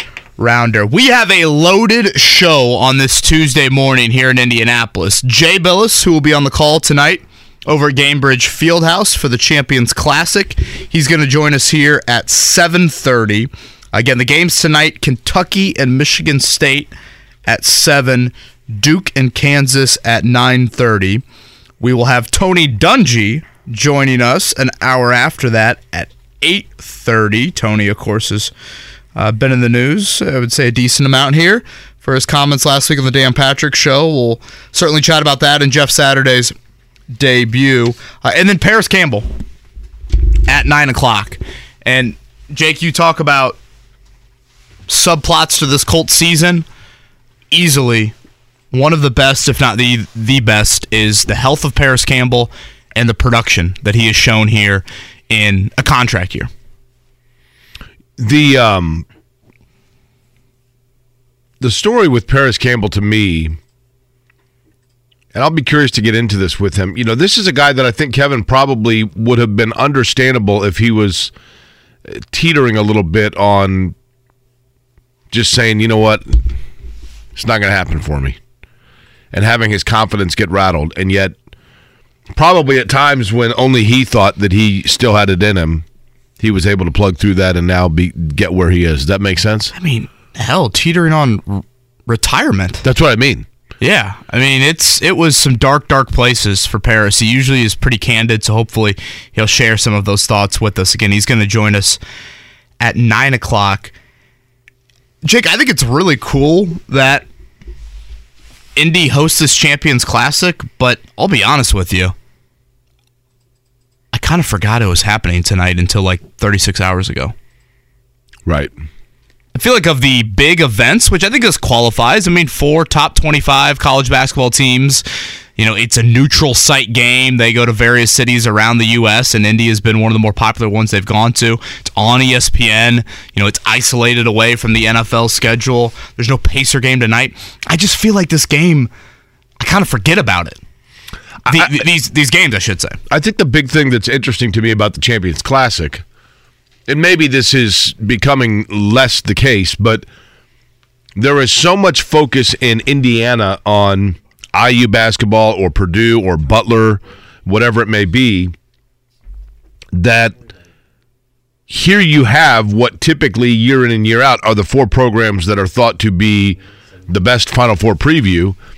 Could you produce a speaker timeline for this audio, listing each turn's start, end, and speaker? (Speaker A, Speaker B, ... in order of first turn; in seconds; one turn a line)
Speaker A: 0.4-16.9
Speaker A: 17.4-21.2
Speaker A: 21.8-28.5
Speaker A: 29.2-36.5
Speaker A: 37.1-39.3
Speaker A: 40.5-43.6
Speaker A: 44.9-46.7
Speaker A: 47.5-48.1
Speaker A: 48.7-56.5
Speaker B: 58.2-59.0
Speaker B: 61.6-63.6
Speaker B: 65.3-71.3
Speaker B: 72.1-73.9
Speaker B: 75.3-76.5
Speaker B: 77.3-78.4
Speaker B: 79.3-81.3
Speaker B: 82.3-85.8
Speaker B: 86.4-89.7
Speaker A: 89.8-92.8
Speaker B: 92.8-93.4
Speaker A: 93.8-102.0
Speaker A: 102.8-103.9
Speaker A: 105.2-107.2
Speaker A: 108.8-112.1
Speaker A: 114.1-117.3
Speaker B: 118.4-118.7
Speaker A: 119.5-125.0
Speaker A: 125.6-138.9
Speaker A: 139.6-140.6
Speaker B: 141.5-141.8
Speaker A: 141.5-143.0
Speaker B: 143.1-146.0
Speaker B: 146.9-150.1
Speaker B: 151.2-158.5
Speaker B: 159.9-160.3
Speaker B: 161.7-168.6